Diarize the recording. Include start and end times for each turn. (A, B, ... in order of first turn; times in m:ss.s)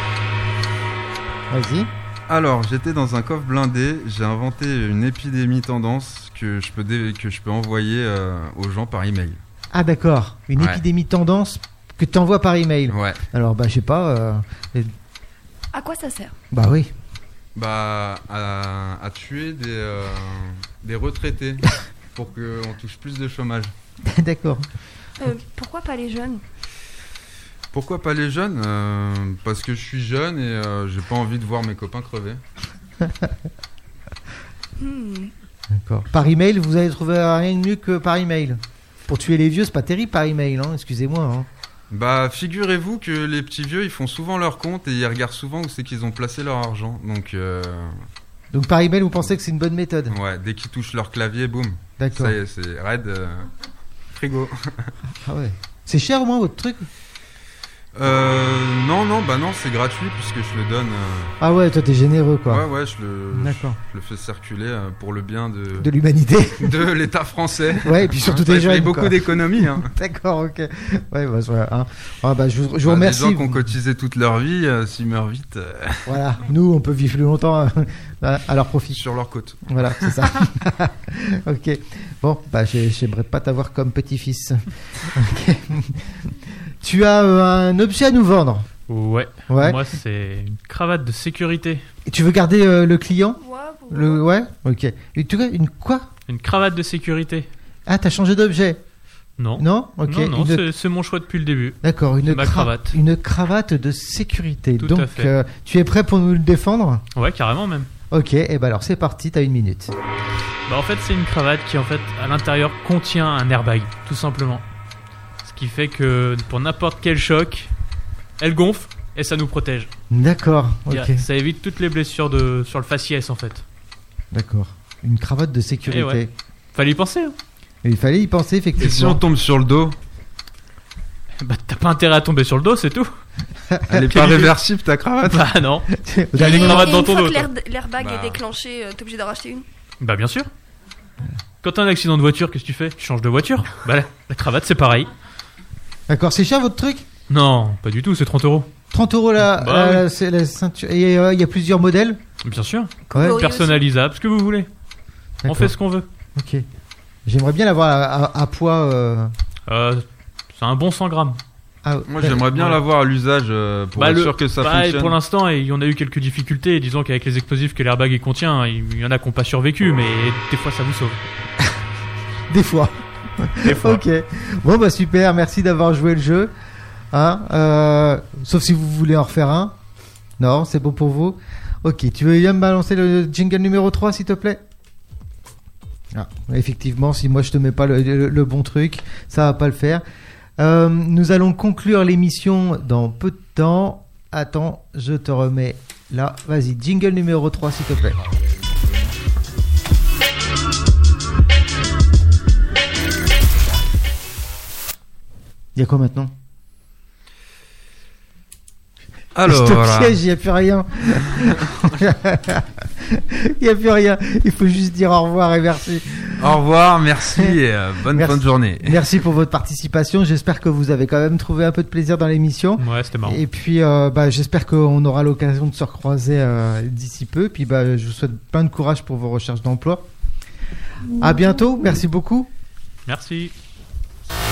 0:01.5-0:01.9 A
0:02.3-0:09.4 B
0:09.7-0:14.9 A
0:10.6-0:10.8 B
0:12.9-0:13.2 B
0:15.7-0:16.4 C
0:16.5-0:16.9 A
0:17.5-0:23.7 B
0:24.0-0:24.7 A
0:25.2-0:26.4 C
0:27.7-0:32.4 B
0:33.0-0:33.3 A
0:34.8-0:35.3 C
0:35.7-0:41.5 A
0:41.9-0:48.1 B
0:48.5-0:50.2 A
0:50.1-0:53.5 B
0:52.0-0:52.4 A
0:54.1-0:54.9 B
0:55.2-0:56.9 A
0:57.9-1:01.4 B
1:01.4-1:02.6 A
1:02.5-1:05.9 B
1:03.3-1:03.8 A
1:05.8-1:06.8 A
1:06.6-1:09.9 B
1:07.8-1:13.7 A
1:12.8-1:16.1 B
1:16.0-1:19.0 A
1:18.9-1:20.3 B
1:19.6-1:28.7 A
1:28.9-1:31.8 D
1:29.5-1:29.8 A
1:32.0-1:33.4 A
1:33.4-1:34.2 C
1:33.9-1:36.1 A
1:36.3-1:37.5 D
1:37.9-1:38.8 A
1:39.4-1:43.0 D
1:39.6-1:40.6 A
1:41.8-1:47.0 A
1:44.8-1:45.3 D
1:47.1-1:47.9 D
1:48.1-1:49.9 A
1:50.7-1:54.6 D
1:55.4-1:57.7 D
1:58.4-1:59.9 D
2:00.1-2:01.2 A
2:00.9-2:03.6 D
2:04.3-2:06.3 A
2:05.9-2:07.4 D
2:07.8-2:09.2 A
2:08.8-2:10.0 B
2:11.4-2:13.1 D
2:13.7-2:14.0 A
2:13.9-2:15.5 B
2:14.1-2:14.5 D
2:15.3-2:17.5 D
2:15.9-2:17.0 A
2:16.3-2:19.6 C
2:18.0-2:18.4 B
2:20.0-2:20.5 D
2:21.6-2:25.1 D
2:26.1-2:27.0 A
2:27.3-2:28.7 D
2:28.9-2:32.2 A
2:29.4-2:30.0 D
2:32.4-2:34.7 D
2:33.1-2:33.8 C
2:33.1-2:33.4 A
2:35.4-2:35.7 A
2:35.4-2:36.1 D
2:36.3-2:36.6 A
2:37.2-2:39.3 A
2:39.7-2:41.4 D
2:41.8-2:42.4 A
2:42.1-2:45.2 B
2:42.5-2:42.8 D
2:44.0-2:51.2 D
2:52.5-2:56.5 A
2:53.6-2:54.0 D
2:57.1-2:59.8 A
3:00.4-3:04.6 A
3:06.1-3:10.0 A
3:10.6-3:18.2 A
3:25.7-3:26.3 A
3:29.3-3:30.2 B
3:29.5-3:36.6 A
3:31.3-3:31.8 B
3:36.4-3:39.2 B
3:38.1-3:50.1 A
3:42.8-3:43.4 D
3:51.2-3:52.5 A
3:53.0-3:53.5 D